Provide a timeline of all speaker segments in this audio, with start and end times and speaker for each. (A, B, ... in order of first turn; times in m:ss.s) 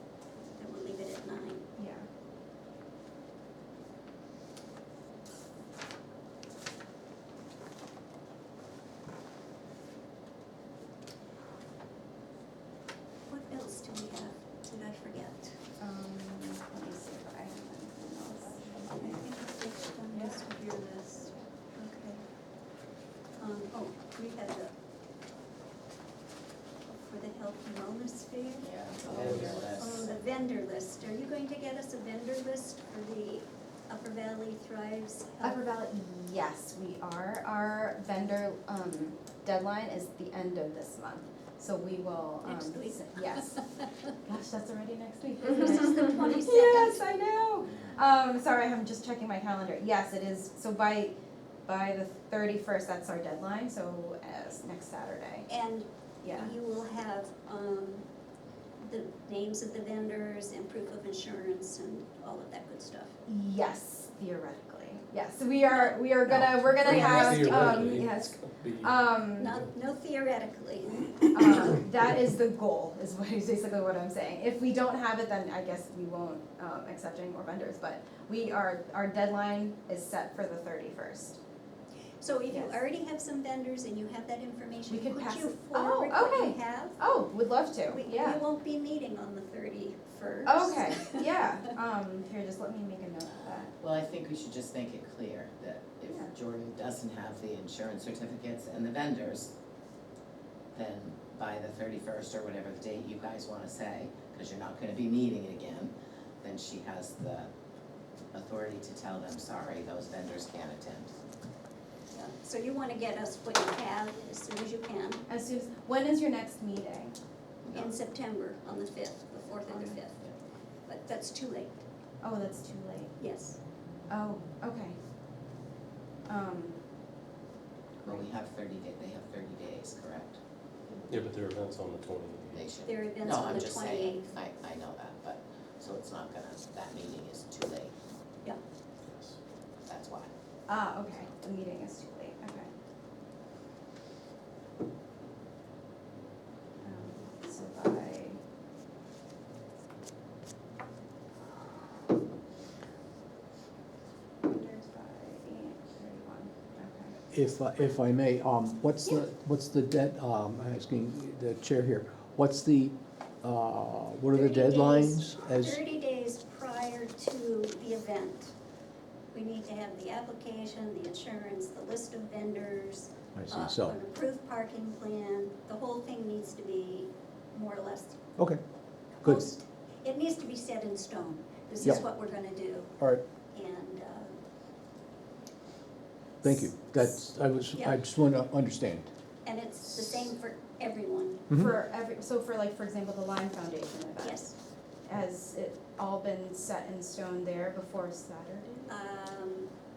0:00.6-0:01.6 A
0:01.8-0:02.0 B
0:13.3-0:15.5 A
0:15.8-0:19.2 B
0:18.9-0:22.2 A
0:23.4-0:24.7 A
0:26.9-0:28.7 A
0:28.6-0:30.1 C
0:29.1-0:29.6 D
0:29.8-0:35.6 A
0:35.4-0:43.6 B
0:42.4-0:43.6 A
0:44.2-0:51.1 B
0:45.4-0:47.0 A
0:51.7-0:55.5 B
0:55.5-0:58.1 A
0:56.2-0:56.5 B
0:58.8-1:03.1 A
1:03.3-1:09.5 B
1:06.3-1:09.0 D
1:07.0-1:07.5 A
1:09.4-1:11.8 A
1:11.3-1:21.4 B
1:22.2-1:27.0 A
1:22.5-1:22.8 B
1:24.9-1:28.4 B
1:27.9-1:31.5 A
1:30.4-1:33.7 B
1:33.8-1:39.5 C
1:36.0-1:36.3 B
1:40.7-1:47.5 C
1:48.3-1:51.1 C
1:52.1-1:55.2 A
1:55.3-1:57.1 B
1:57.6-1:57.9 C
1:57.7-2:01.8 A
1:59.7-2:00.0 B
2:02.2-2:03.1 B
2:03.2-2:03.6 A
2:04.1-2:05.0 B
2:06.3-2:06.8 B
2:08.0-2:10.4 C
2:11.1-2:12.6 D
2:12.5-2:17.9 C
2:12.8-2:14.3 A
2:19.1-2:19.4 D
2:19.9-2:20.3 C
2:20.7-2:22.7 B
2:26.8-2:28.4 B
2:34.4-2:37.2 B
2:37.3-2:45.8 E
2:44.3-2:48.5 A
2:49.3-2:58.2 A
2:53.3-2:53.9 E
2:59.2-3:02.9 A
3:01.8-3:02.1 E
3:03.5-3:04.4 A
3:06.4-3:09.1 E
3:06.5-3:07.1 A
3:07.7-3:08.0 A
3:09.4-3:11.4 A
3:11.5-3:11.7 E
3:11.5-3:14.5 B
3:14.2-3:14.5 A
3:15.0-3:19.0 B
3:18.9-3:19.7 A